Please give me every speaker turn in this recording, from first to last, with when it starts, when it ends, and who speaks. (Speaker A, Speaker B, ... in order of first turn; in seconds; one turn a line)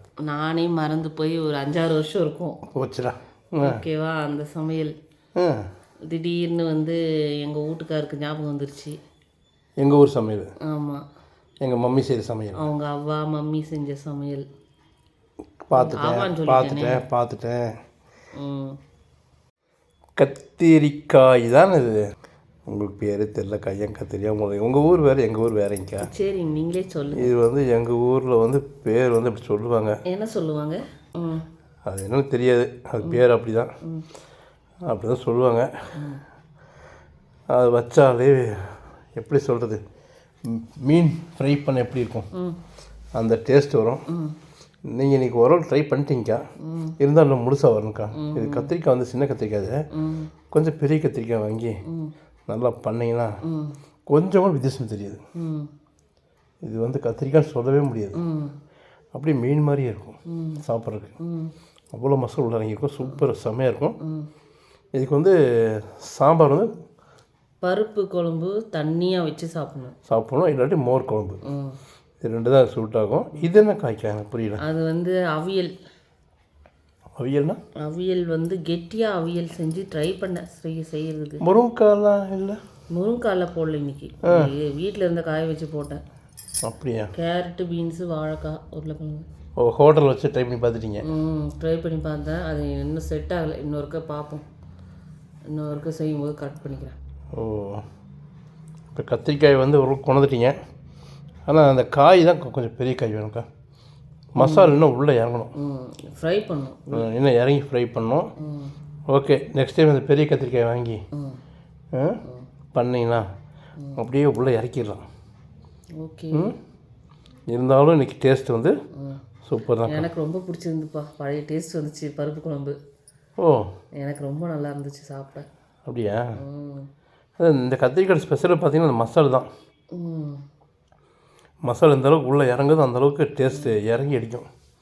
Speaker A: 0.2-2.6
Speaker B: 2.7-3.8
Speaker A: 3.6-4.9
Speaker B: 5.3-5.6
Speaker A: 6.1-9.0
Speaker B: 9.8-10.5
Speaker A: 10.7-11.0
Speaker B: 11.6-12.6
Speaker A: 12.6-14.4
Speaker B: 15.6-17.7
Speaker A: 15.7-17.0
Speaker A: 18.3-18.8
Speaker B: 20.2-22.0
Speaker B: 22.7-26.1
Speaker A: 26.0-27.3
Speaker B: 27.1-30.0
Speaker A: 30.1-31.4
Speaker B: 31.9-33.7
Speaker B: 34.9-35.7
Speaker A: 35.9-36.2
Speaker B: 37.5-39.8
Speaker B: 40.5-42.3
Speaker A: 42.3-42.6
Speaker B: 43.2-44.0
Speaker A: 44.1-44.4
Speaker B: 44.9-46.4
Speaker A: 46.6-47.0
Speaker B: 47.0-49.8
Speaker A: 48.1-48.7
Speaker A: 49.9-50.3
Speaker B: 50.5-51.7
Speaker A: 51.9-52.1
Speaker B: 52.5-53.3
Speaker A: 53.4-53.8
Speaker B: 54.1-55.2
Speaker A: 55.4-55.7
Speaker B: 56.6-58.2
Speaker A: 58.2-58.5
Speaker B: 59.1-61.1
Speaker A: 60.3-60.6
Speaker A: 61.2-61.5
Speaker B: 61.9-64.0
Speaker A: 64.0-64.3
Speaker B: 65.0-66.7
Speaker A: 67.6-69.9
Speaker B: 70.1-71.4
Speaker A: 71.4-71.8
Speaker B: 72.2-74.6
Speaker A: 74.6-75.7
Speaker B: 77.2-77.6
Speaker A: 77.8-81.4
Speaker B: 81.4-82.6
Speaker A: 82.9-86.0
Speaker B: 84.2-84.5
Speaker B: 86.6-87.1
Speaker A: 87.1-89.2
Speaker B: 89.6-91.0
Speaker A: 91.0-94.4
Speaker A: 95.5-97.0
Speaker B: 97.3-97.8
Speaker B: 98.9-100.5
Speaker B: 101.5-103.4
Speaker B: 104.3-105.5
Speaker A: 104.4-104.8
Speaker A: 105.5-107.0
Speaker B: 106.9-108.3
Speaker A: 108.4-108.7
Speaker B: 109.1-111.0
Speaker A: 111.1-111.4
Speaker B: 112.7-113.2
Speaker B: 114.0-115.0
Speaker A: 116.0-116.5
Speaker B: 117.5-118.7
Speaker A: 118.9-119.2
Speaker B: 119.4-120.0
Speaker A: 119.8-122.8
Speaker B: 123.4-123.7
Speaker A: 124.0-125.5
Speaker B: 125.8-126.3
Speaker A: 126.4-126.9
Speaker B: 127.4-129.5
Speaker A: 129.9-130.4
Speaker B: 131.7-134.4